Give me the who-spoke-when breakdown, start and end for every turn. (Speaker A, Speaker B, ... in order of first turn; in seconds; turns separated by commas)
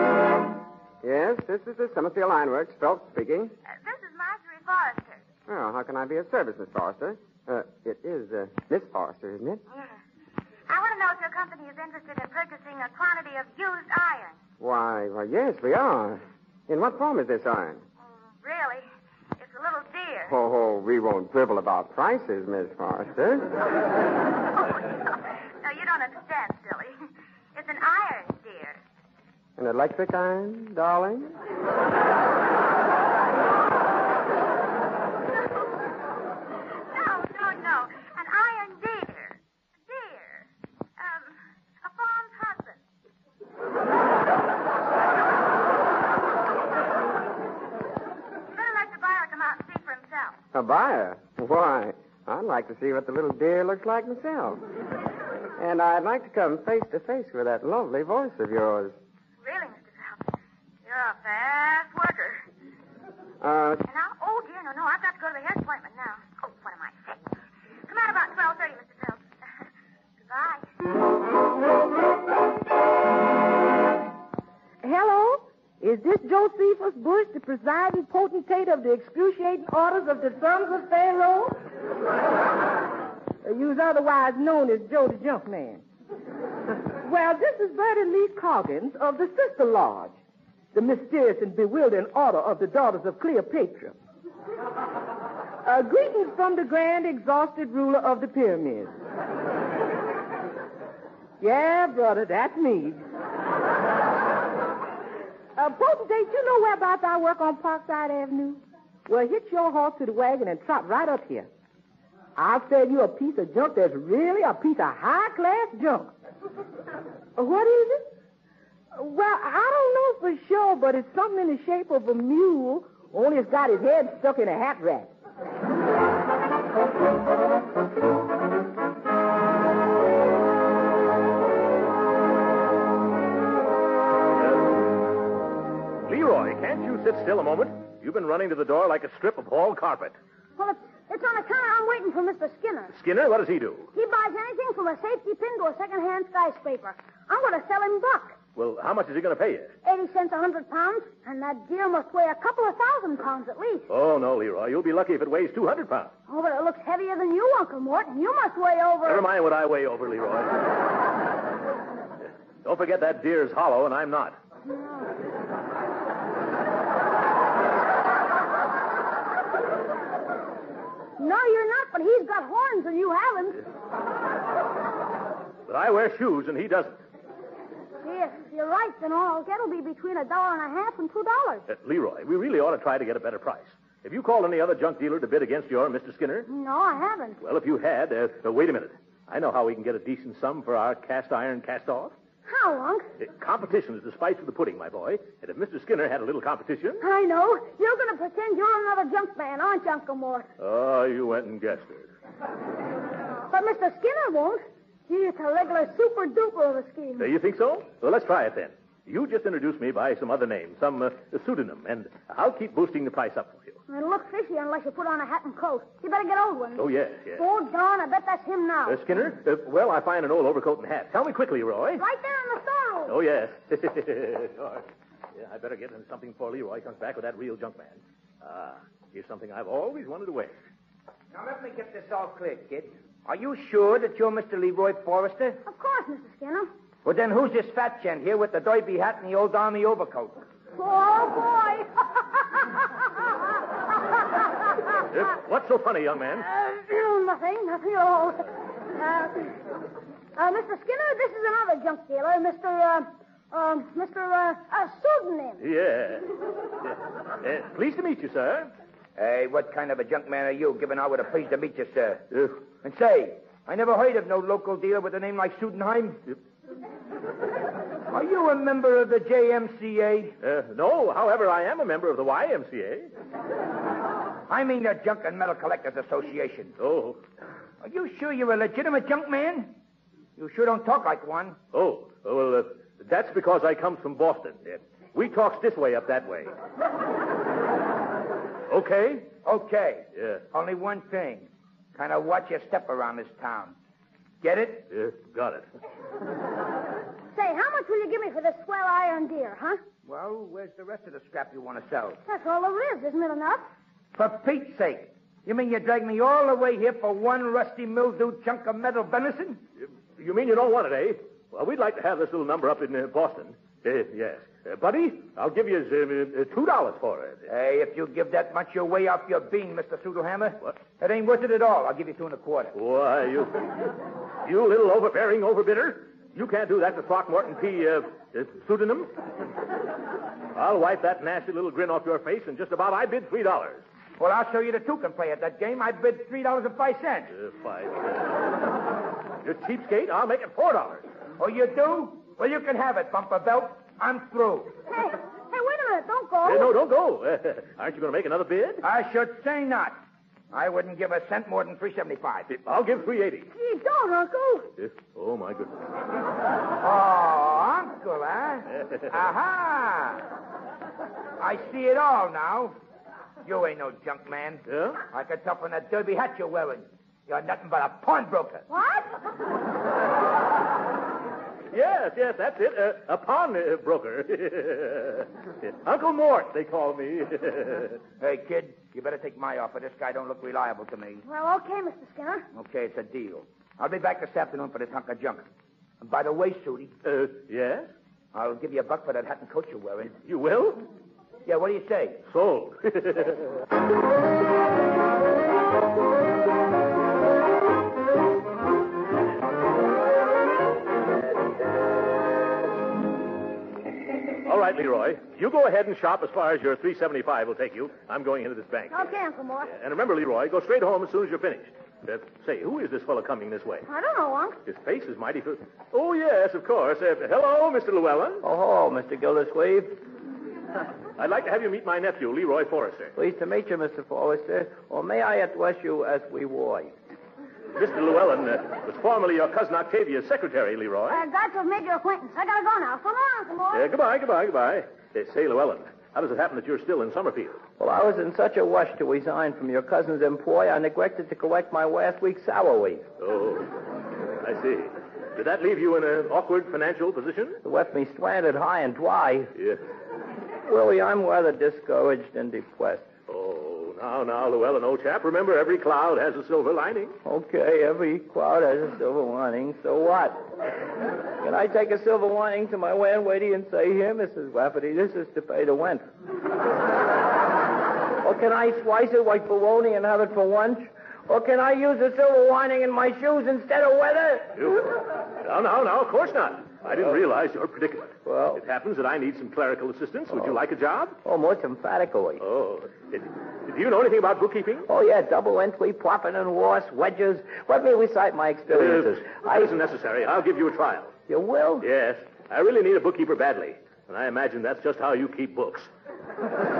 Speaker A: 1.0-3.5, Speaker B: 3.7-5.2, Speaker A: 5.5-9.6, Speaker B: 9.7-10.0, Speaker B: 10.7-14.4, Speaker A: 14.6-17.8, Speaker B: 18.0-18.8, Speaker B: 19.4-20.4, Speaker A: 20.3-23.5, Speaker B: 25.6-27.0, Speaker B: 27.5-28.8, Speaker A: 29.6-31.4, Speaker B: 36.9-42.8, Speaker B: 48.5-50.4, Speaker A: 50.5-54.6, Speaker A: 55.6-59.0, Speaker B: 59.4-62.4, Speaker A: 63.4-63.8, Speaker B: 63.8-67.2, Speaker B: 67.8-69.2, Speaker B: 70.2-70.7, Speaker C: 74.8-81.6, Speaker C: 83.4-85.8, Speaker C: 87.0-90.2, Speaker C: 90.7-93.9, Speaker C: 95.6-98.9, Speaker C: 101.4-103.0, Speaker C: 105.5-111.5, Speaker C: 112.3-116.1, Speaker C: 117.3-118.1, Speaker C: 118.9-125.1, Speaker D: 136.1-140.2, Speaker E: 140.6-142.9, Speaker D: 142.9-143.9, Speaker E: 143.9-148.3, Speaker D: 148.6-149.7, Speaker E: 149.8-153.9, Speaker D: 153.9-156.1, Speaker E: 156.3-159.2, Speaker D: 159.1-160.6, Speaker D: 162.6-164.3, Speaker E: 171.2-173.6, Speaker D: 175.7-177.0, Speaker E: 178.0-181.7, Speaker D: 181.7-186.5, Speaker E: 186.5-187.4, Speaker D: 187.4-192.1, Speaker E: 192.5-193.1, Speaker D: 193.2-197.0, Speaker E: 197.0-200.5, Speaker D: 200.6-202.1, Speaker E: 203.5-207.3, Speaker D: 207.2-213.8, Speaker E: 213.9-219.0, Speaker D: 216.8-217.4, Speaker D: 218.9-222.0, Speaker E: 222.0-223.2, Speaker D: 223.1-224.8, Speaker D: 225.3-230.5, Speaker F: 231.3-235.6, Speaker E: 235.6-236.7, Speaker F: 237.0-240.4, Speaker E: 240.8-242.9, Speaker D: 245.1-246.4, Speaker E: 246.4-249.6, Speaker E: 250.3-255.6, Speaker D: 255.6-258.7, Speaker F: 259.2-262.2, Speaker F: 262.8-266.2, Speaker F: 268.1-270.4, Speaker D: 270.4-273.1, Speaker F: 274.5-276.7, Speaker D: 276.8-277.2, Speaker F: 277.8-279.7, Speaker F: 280.4-281.6, Speaker D: 281.7-286.5, Speaker D: 288.7-289.3, Speaker F: 289.2-293.8, Speaker D: 290.1-290.4, Speaker F: 294.4-294.9, Speaker D: 294.9-295.7, Speaker E: 297.3-299.8, Speaker F: 300.0-302.2, Speaker E: 302.2-303.7, Speaker F: 304.1-309.6, Speaker D: 310.2-317.5, Speaker F: 317.5-322.7, Speaker D: 322.7-323.6, Speaker D: 324.4-329.1, Speaker D: 330.5-333.8, Speaker F: 334.2-337.3, Speaker D: 337.3-338.4, Speaker D: 339.4-341.0, Speaker F: 341.4-344.7, Speaker E: 344.9-346.7, Speaker D: 346.4-348.8, Speaker F: 348.8-350.0, Speaker F: 350.5-352.5, Speaker D: 352.5-353.5, Speaker E: 353.5-354.7, Speaker D: 354.8-355.8, Speaker F: 356.8-360.3, Speaker F: 361.4-362.7, Speaker F: 363.4-368.6, Speaker D: 364.7-365.0, Speaker E: 368.7-369.1, Speaker D: 371.7-378.0, Speaker F: 378.2-381.2, Speaker E: 381.2-382.5, Speaker F: 382.5-385.4, Speaker F: 386.0-386.9, Speaker D: 387.0-387.9, Speaker F: 388.3-390.1, Speaker D: 390.2-390.8, Speaker F: 391.4-392.2, Speaker D: 392.3-393.4, Speaker D: 404.4-409.0, Speaker E: 408.9-409.7, Speaker D: 409.7-413.9, Speaker E: 413.9-414.6, Speaker D: 414.6-418.4, Speaker G: 418.4-420.0, Speaker D: 421.2-423.1, Speaker G: 423.1-426.9, Speaker D: 427.8-431.2, Speaker E: 431.1-433.9, Speaker D: 433.7-437.6, Speaker G: 437.8-443.1, Speaker D: 443.2-443.7, Speaker D: 444.4-447.6, Speaker G: 447.6-449.5, Speaker G: 450.6-453.1, Speaker D: 453.3-457.2, Speaker G: 457.2-460.4, Speaker G: 461.4-466.0, Speaker G: 468.2-474.7, Speaker D: 474.6-481.2, Speaker G: 478.2-478.6, Speaker G: 480.3-480.6, Speaker G: 481.2-482.4, Speaker D: 482.4-484.9, Speaker G: 484.9-489.7, Speaker D: 488.7-491.1, Speaker G: 491.3-491.9, Speaker D: 491.8-495.9